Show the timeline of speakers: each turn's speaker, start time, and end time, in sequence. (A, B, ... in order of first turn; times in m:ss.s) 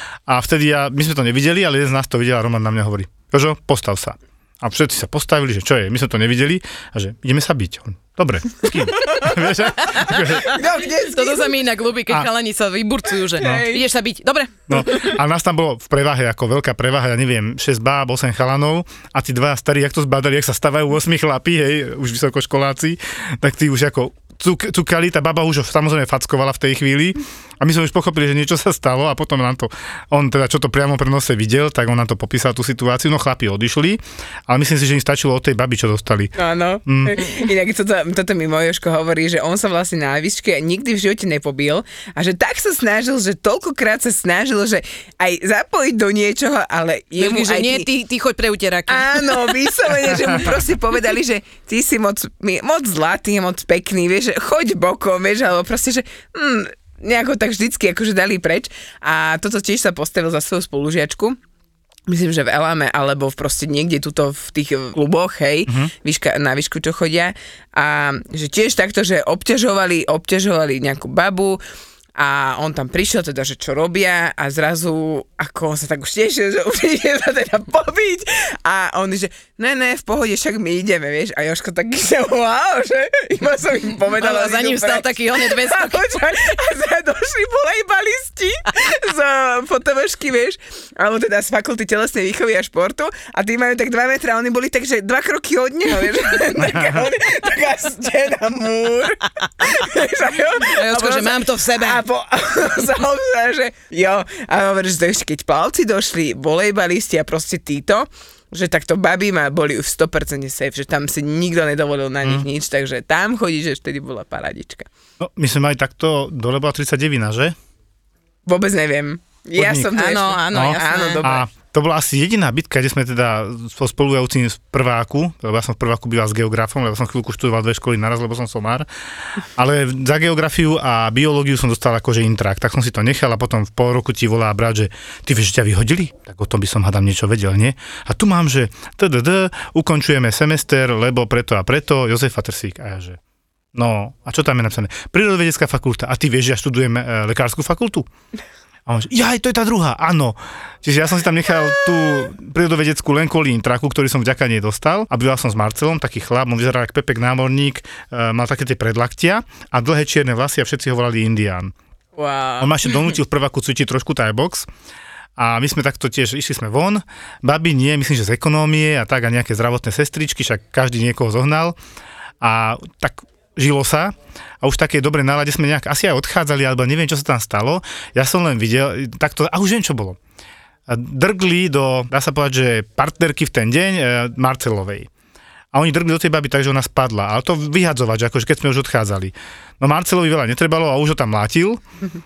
0:00.3-0:10.6 A
0:09.8-0:14.6 B
0:10.4-0:11.5 C
0:13.4-0:13.7 A
0:13.4-0:13.8 C
0:14.7-0:36.3 A
0:36.4-0:47.9 C
0:36.8-0:37.2 A
0:47.2-0:49.6 B
0:48.9-1:01.4 C
1:02.1-1:11.6 C
1:05.7-1:05.9 A
1:12.2-1:54.9 C
1:24.2-1:26.0 B
1:36.6-1:37.0 A
1:40.6-1:42.0 B
1:55.2-1:57.6 A
1:58.4-2:01.5 C
1:59.6-1:59.9 A
1:59.9-2:01.2 B
2:00.5-2:23.2 A
2:23.7-2:28.1 A
2:28.9-2:41.7 A
2:42.2-2:42.7 C
2:42.6-2:44.7 A
2:45.4-2:51.8 A
2:52.4-3:00.2 A
3:00.9-3:05.1 A
3:05.7-3:11.8 A